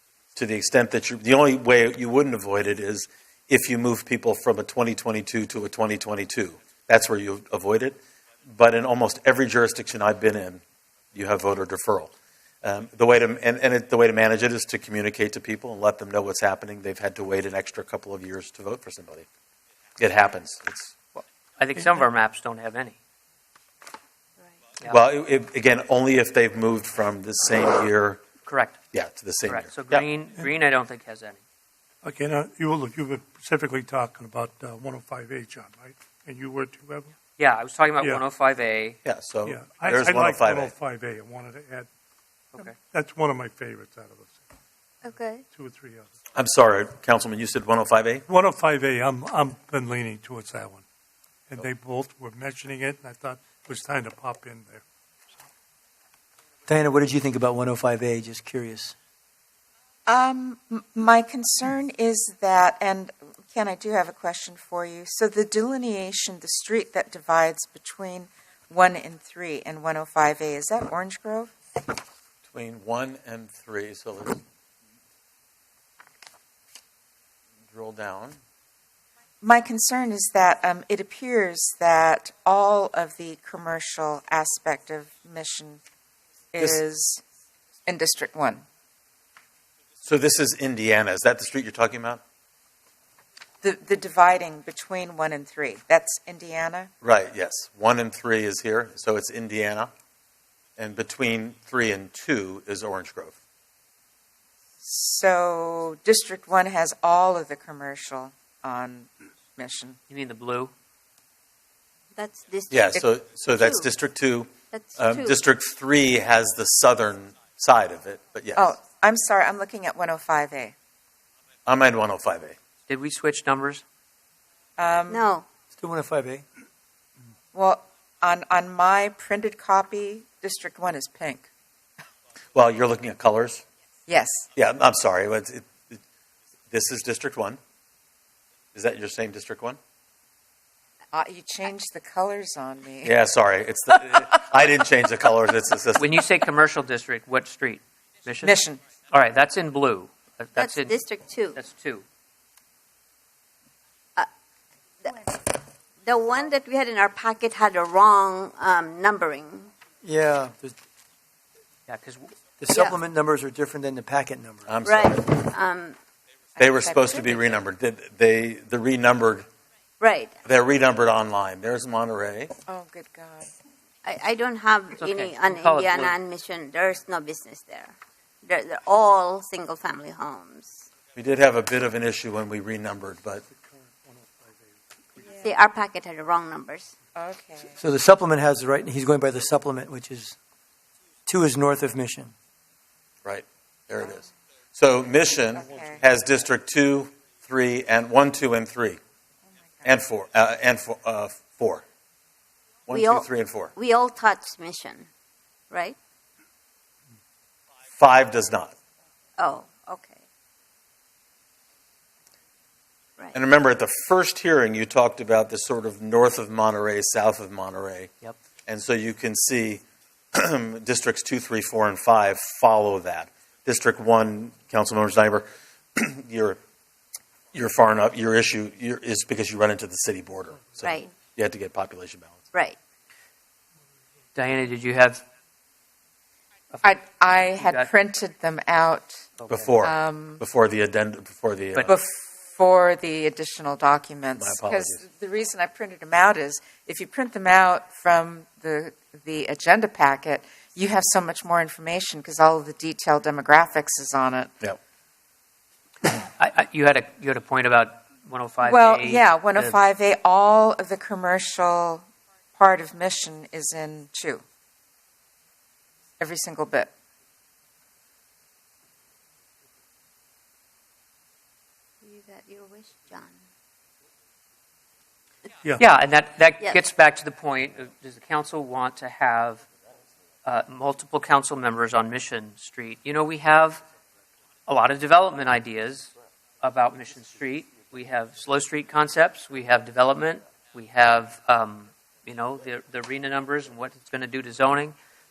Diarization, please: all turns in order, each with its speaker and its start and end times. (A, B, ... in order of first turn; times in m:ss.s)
0:00.3-0:10.6 A
0:11.1-0:12.1 A
0:12.6-0:19.3 A
0:20.0-0:20.9 A
0:21.1-0:23.0 B
0:24.8-0:28.2 A
0:28.4-0:28.8 B
0:28.9-0:30.1 A
0:29.5-0:31.4 B
0:32.0-0:37.1 C
0:37.4-0:39.0 B
0:39.0-0:40.7 A
0:39.4-0:41.9 C
0:42.6-0:44.4 C
0:45.0-0:45.4 D
0:45.5-0:46.1 C
0:46.3-0:48.2 A
0:48.3-0:50.8 C
0:51.5-0:54.8 C
0:56.7-0:59.0 E
1:00.1-1:11.5 F
1:12.4-1:14.4 A
1:17.7-1:18.4 A
1:19.4-1:25.8 F
1:26.5-1:27.2 F
1:27.8-1:28.6 F
1:30.0-1:32.2 A
1:33.6-1:36.9 F
1:37.0-1:39.9 A
1:40.8-1:43.4 A
1:44.8-1:50.0 F
1:50.1-1:50.7 B
1:52.1-1:53.0 D
1:52.7-1:58.8 A
1:53.5-1:53.8 D
1:54.7-1:55.4 D
1:58.6-2:00.7 F
2:01.7-2:02.6 A
2:02.9-2:03.8 B
2:04.8-2:05.2 F
2:05.1-2:05.5 D
2:05.7-2:06.4 E
2:07.5-2:11.5 F
2:12.5-2:13.6 A
2:14.1-2:14.5 F
2:14.5-2:16.0 A
2:16.7-2:17.6 A
2:18.7-2:19.8 A
2:21.1-2:23.1 F
2:23.0-2:26.1 A
2:26.0-2:28.6 B
2:28.4-2:28.8 F
2:29.1-2:31.0 B
2:30.6-2:31.6 D
2:31.5-2:32.0 B
2:35.0-2:35.4 D
2:36.0-2:39.7 D
2:40.0-2:40.8 E
2:41.9-2:42.3 B
2:42.6-2:44.8 E
2:44.7-2:45.3 A
2:44.8-2:46.0 D
2:46.6-2:47.6 F
2:46.6-2:49.5 A
2:50.0-2:50.3 D
2:50.4-2:52.5 A
2:52.7-2:53.5 F
2:54.0-3:00.9 D
2:55.0-2:56.2 B
3:01.1-3:03.4 A
3:03.6-3:05.4 C
3:05.2-3:05.5 F
3:05.4-3:06.9 D
3:07.1-3:07.8 F
3:07.8-3:10.4 E
3:11.2-3:12.3 E
3:13.2-3:19.0 A
3:15.6-3:16.0 F
3:19.8-3:21.8 A
3:22.9-3:23.7 A
3:22.9-3:25.1 D
3:25.7-3:26.0 D
3:28.0-3:28.7 A
3:29.4-3:30.2 D
3:33.3-3:38.1 A
3:38.6-3:39.8 A
3:40.3-3:46.6 A
3:47.5-3:52.4 A
3:50.8-3:51.1 D
3:54.3-3:55.2 B
3:56.8-3:59.2 F
3:57.6-3:57.9 B
3:59.4-3:59.6 B
3:59.5-4:01.9 A
3:59.8-4:00.4 F
4:01.8-4:14.5 F
4:04.4-4:05.0 A
4:16.2-4:19.8 B
4:18.6-4:24.4 F
4:26.2-4:26.9 F
4:32.0-4:33.5 D
4:35.8-4:39.6 B
4:40.4-4:43.8 B
4:44.7-4:46.1 B
4:46.6-4:54.9 B